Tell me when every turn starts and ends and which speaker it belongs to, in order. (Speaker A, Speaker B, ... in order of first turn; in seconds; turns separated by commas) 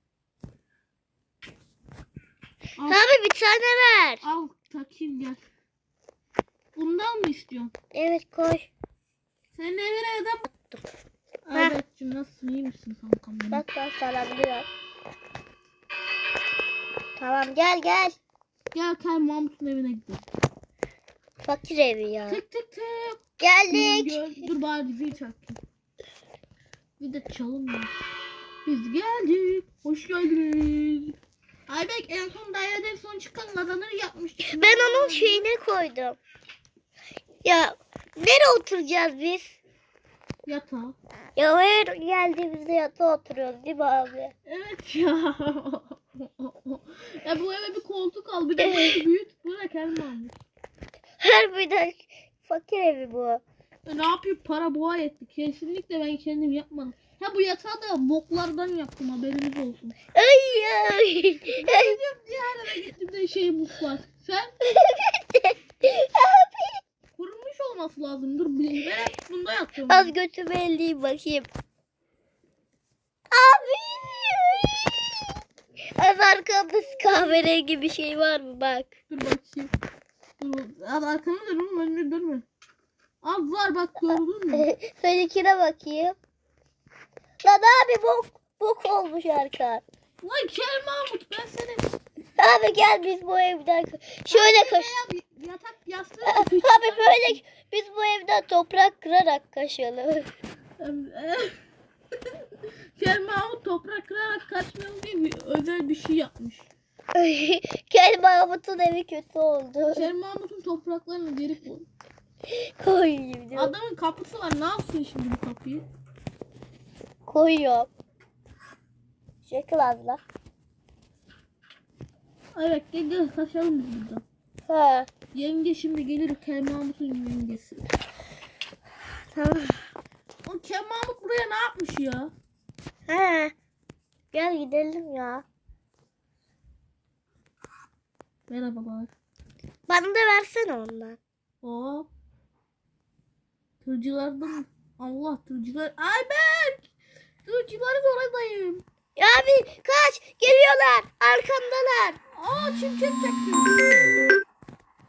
Speaker A: 2.8-3.0, Speaker B: 2.9-4.2, Speaker A: 4.2-5.4, Speaker A: 6.8-7.7, Speaker B: 7.9-8.7, Speaker A: 9.5-10.5, Speaker B: 10.5-10.8, Speaker A: 11.5-13.7, Speaker B: 13.5-14.7, Speaker B: 17.2-18.2, Speaker A: 18.7-20.2, Speaker B: 21.4-22.4, Speaker A: 22.3-23.2, Speaker B: 23.4-24.2, Speaker A: 23.7-25.6, Speaker A: 27.0-27.9, Speaker A: 28.6-31.2, Speaker A: 31.7-35.5, Speaker B: 34.4-36.2, Speaker B: 37.4-39.6, Speaker A: 40.5-41.0, Speaker B: 41.4-44.3, Speaker A: 44.5-50.3, Speaker B: 48.6-49.0, Speaker B: 51.2-53.4, Speaker A: 53.9-60.0, Speaker B: 60.1-62.0, Speaker A: 61.5-64.6, Speaker B: 64.7-66.8, Speaker A: 67.2-70.1, Speaker B: 69.9-71.5, Speaker B: 73.3-74.8, Speaker B: 76.0-79.0, Speaker A: 79.1-79.7, Speaker A: 80.4-82.5, Speaker A: 83.2-84.7, Speaker B: 84.1-86.2, Speaker B: 87.4-89.8, Speaker A: 90.2-91.9, Speaker B: 92.4-94.9, Speaker A: 94.3-97.4, Speaker B: 96.2-100.3, Speaker A: 100.8-101.5, Speaker A: 103.0-106.7, Speaker B: 107.2-110.1, Speaker A: 109.9-111.9, Speaker B: 112.5-113.7, Speaker A: 113.5-115.8, Speaker B: 117.3-117.9, Speaker B: 119.4-120.2, Speaker A: 122.5-124.2, Speaker B: 124.7-125.1, Speaker A: 125.3-127.9, Speaker B: 129.3-129.9, Speaker A: 130.4-132.3, Speaker B: 133.1-133.5, Speaker B: 134.3-135.4, Speaker A: 138.5-139.1, Speaker B: 139.9-141.2, Speaker A: 141.6-142.1, Speaker A: 143.8-146.8, Speaker A: 147.4-148.8, Speaker B: 149.2-152.2, Speaker A: 152.3-154.3